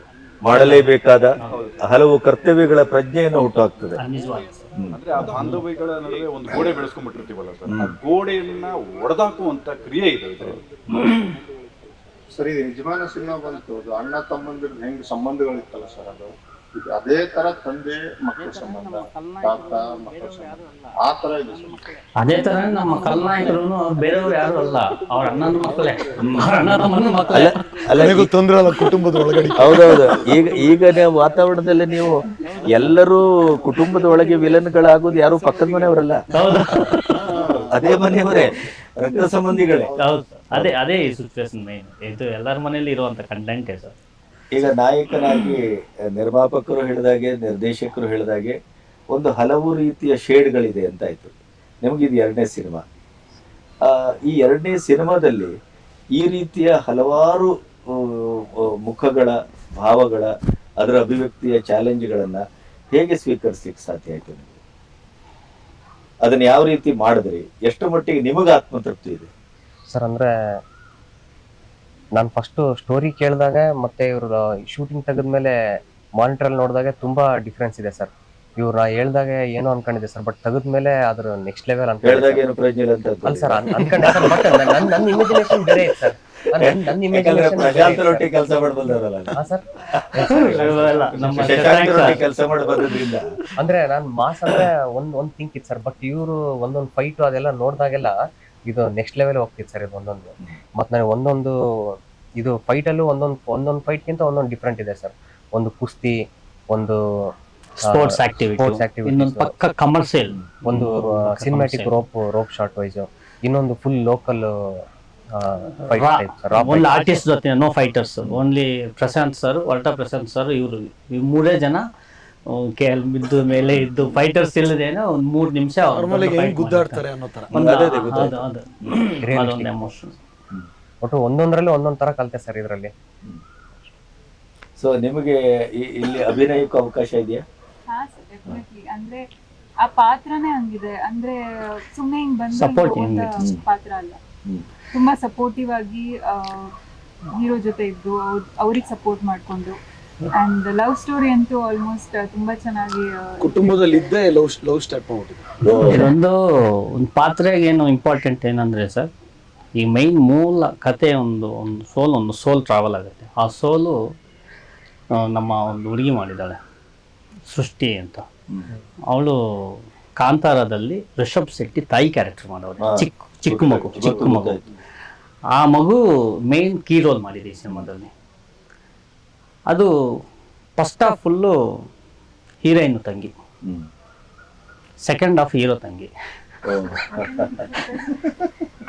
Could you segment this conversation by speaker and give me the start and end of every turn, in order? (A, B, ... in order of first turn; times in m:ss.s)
0:00.4-0:04.0 A
0:00.5-0:01.6 B
0:01.5-0:01.8 C
0:04.0-0:05.6 B
0:04.8-0:05.3 A
0:04.9-0:10.6 C
0:07.7-0:08.0 A
0:12.3-0:21.8 D
0:22.2-0:27.5 B
0:27.3-0:28.3 A
0:28.0-0:30.2 E
0:29.6-0:36.2 A
0:36.3-0:37.2 B
0:36.5-0:37.0 E
0:37.2-0:38.3 D
0:37.7-0:39.9 A
0:40.0-0:43.9 B
0:44.5-0:48.6 A
0:49.1-0:52.8 A
0:53.8-0:55.5 A
0:56.2-1:02.4 A
1:02.9-1:04.6 A
1:06.2-1:09.3 A
1:09.9-1:10.3 F
1:12.2-1:15.5 F
1:16.2-1:22.5 F
1:22.0-1:24.3 A
1:23.2-1:28.3 F
1:26.6-1:29.4 A
1:29.3-1:31.3 F
1:30.3-1:32.2 B
1:30.5-1:31.6 C
1:31.4-1:33.2 A
1:33.6-1:41.6 F
1:42.4-1:47.0 F
1:47.8-1:49.6 F
1:47.9-1:52.0 B
1:50.6-1:54.5 F
1:55.4-1:57.3 F
1:55.9-2:01.8 B
2:02.8-2:10.1 B
2:03.7-2:04.0 A
2:05.9-2:07.5 E
2:07.5-2:08.4 A
2:09.2-2:09.9 F
2:11.0-2:12.9 F
2:14.8-2:17.4 A
2:17.9-2:19.2 G
2:19.8-2:24.2 G
2:22.5-2:23.4 B
2:24.9-2:26.7 G
2:27.3-2:29.8 G
2:30.3-2:33.7 G
2:33.4-2:35.7 E
2:35.6-2:36.1 A
2:35.8-2:36.4 B
2:37.0-2:39.1 B
2:39.8-2:44.0 B
2:45.2-2:46.6 B
2:47.5-2:48.2 B
2:49.1-2:54.6 B
2:52.8-2:54.6 A
2:55.6-2:56.0 B
2:56.5-2:58.1 B
3:00.8-3:01.5 B
3:02.6-3:03.3 B
3:05.0-3:06.1 B
3:06.6-3:07.5 A
3:06.7-3:07.0 B
3:07.2-3:08.2 G